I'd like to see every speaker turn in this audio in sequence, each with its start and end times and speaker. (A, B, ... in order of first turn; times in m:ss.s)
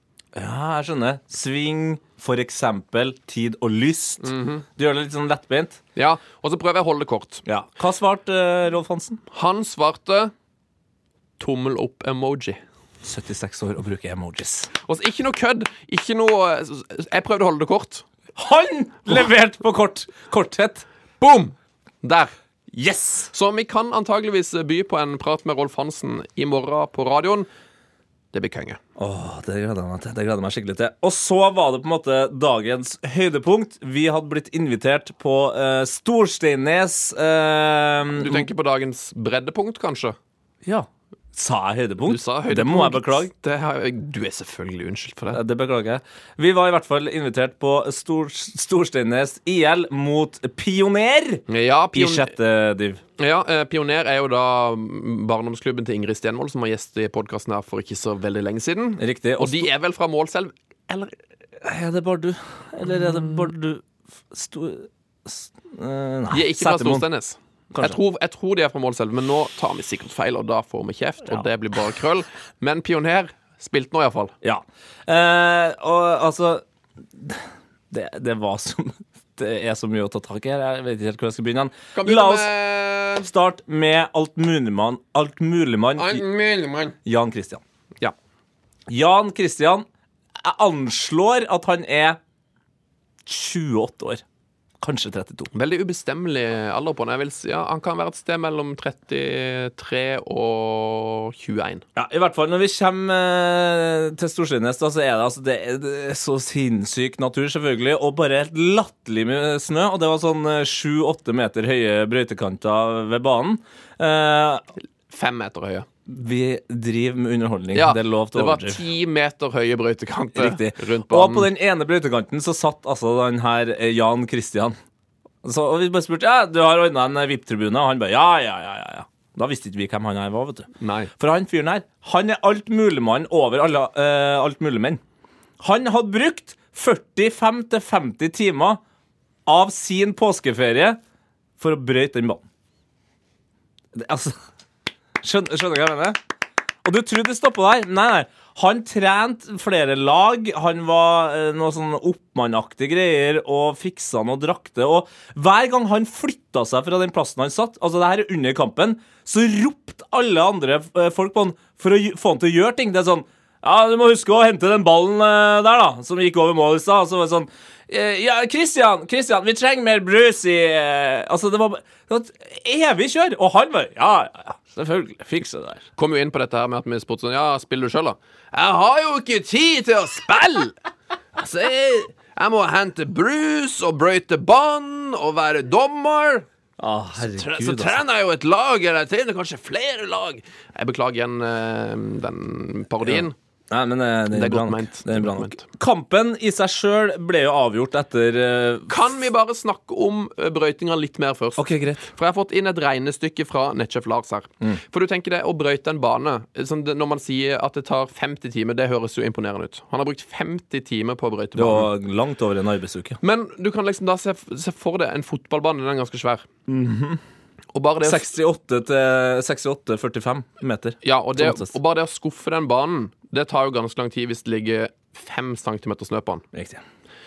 0:00.3-0:05.8 A
0:04.2-0:04.6 B
0:06.0-0:07.4 B
0:07.4-0:09.2 A
0:09.3-0:10.3 B
0:11.4-0:12.6 B
0:13.0-0:14.7 A
0:14.8-0:18.0 B
0:18.4-0:20.8 A
0:21.2-0:22.3 B
0:22.7-0:23.3 A
0:23.3-0:27.5 B
0:28.3-0:28.8 B
0:29.0-0:38.5 A
0:38.1-0:40.2 B
0:40.6-0:43.3 A
0:42.0-0:45.4 B
0:45.3-0:53.0 A
0:51.5-0:52.3 B
0:53.2-1:01.1 B
0:59.0-0:59.7 A
1:01.6-1:07.0 A
1:06.3-1:14.3 B
1:07.7-1:08.0 A
1:14.4-1:22.5 A
1:21.9-1:23.3 B
1:23.2-1:26.2 A
1:26.0-1:27.0 B
1:27.0-1:27.6 A
1:28.9-1:29.8 A
1:30.4-1:32.2 A
1:33.2-1:34.2 A
1:34.8-1:35.5 A
1:35.5-1:41.8 B
1:41.9-1:54.6 A
1:55.1-1:55.9 B
1:56.1-1:58.8 A
1:57.7-2:01.5 B
2:00.3-2:04.8 A
2:05.4-2:15.0 A
2:10.8-2:11.1 B
2:15.6-2:18.8 A
2:19.4-2:21.0 A
2:21.6-2:22.4 A
2:23.9-2:24.4 A
2:25.2-2:26.2 A
2:26.8-2:55.8 A
2:56.0-3:00.8 B
3:01.4-3:06.4 B
3:06.8-3:08.0 A
3:07.2-3:13.3 B
3:13.0-3:19.0 A
3:14.3-3:15.6 B
3:18.9-3:31.9 B
3:21.6-3:22.1 A
3:31.6-3:33.2 A
3:33.2-3:36.4 B
3:36.7-3:37.2 A
3:37.7-3:38.3 B
3:38.0-3:41.7 A
3:41.0-3:46.4 B
3:46.5-3:46.8 A